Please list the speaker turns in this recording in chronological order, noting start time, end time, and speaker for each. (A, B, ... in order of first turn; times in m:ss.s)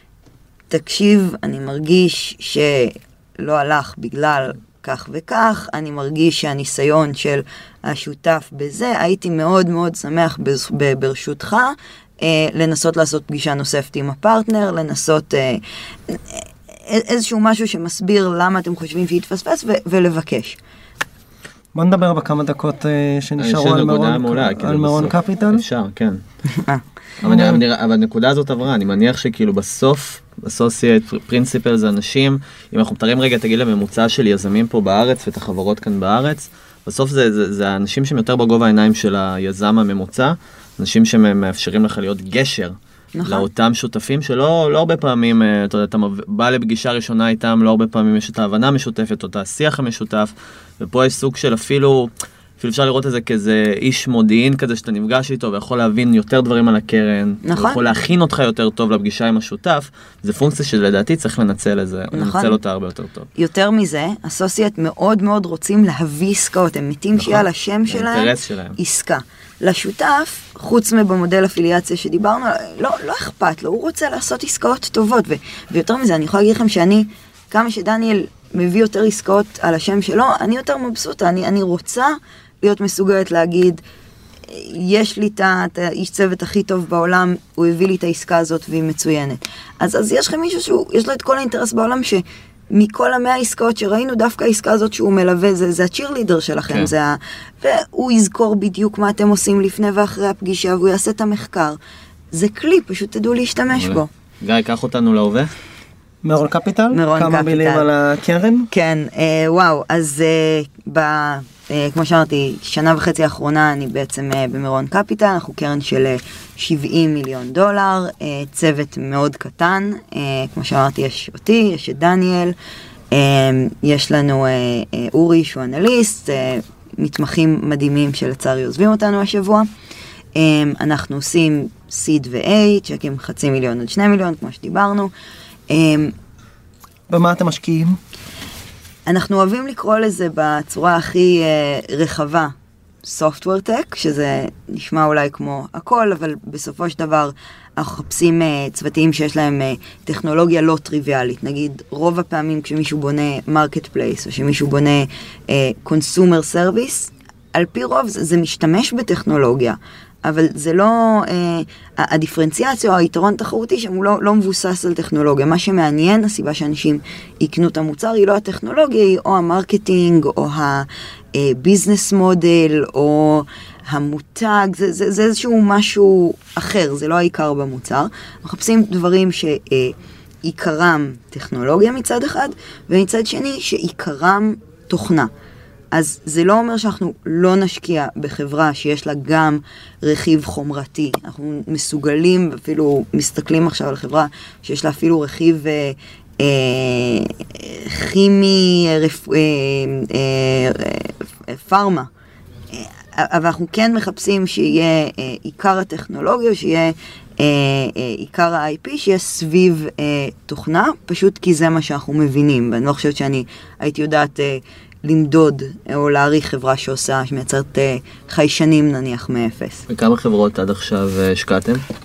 0:00.7-0:20.6 A
0:21.8-0:25.6 B
0:23.4-0:26.2 C
0:26.5-0:26.8 A
0:27.2-1:03.3 C
0:27.2-0:27.6 B
0:43.2-0:43.5 A
0:57.4-0:57.8 A
1:02.1-1:02.6 A
1:03.4-1:23.8 A
1:07.2-1:08.8 C
1:24.5-1:41.8 A
1:42.3-1:44.1 A
1:43.7-1:45.5 C
1:46.2-1:48.7 B
1:46.9-1:47.9 A
1:48.7-2:02.6 A
2:03.1-2:09.7 A
2:10.4-2:15.1 A
2:15.7-2:16.1 A
2:17.1-2:18.0 B
2:19.1-3:05.3 A
3:05.9-3:22.1 A
3:22.7-3:39.8 A
3:39.9-3:41.8 C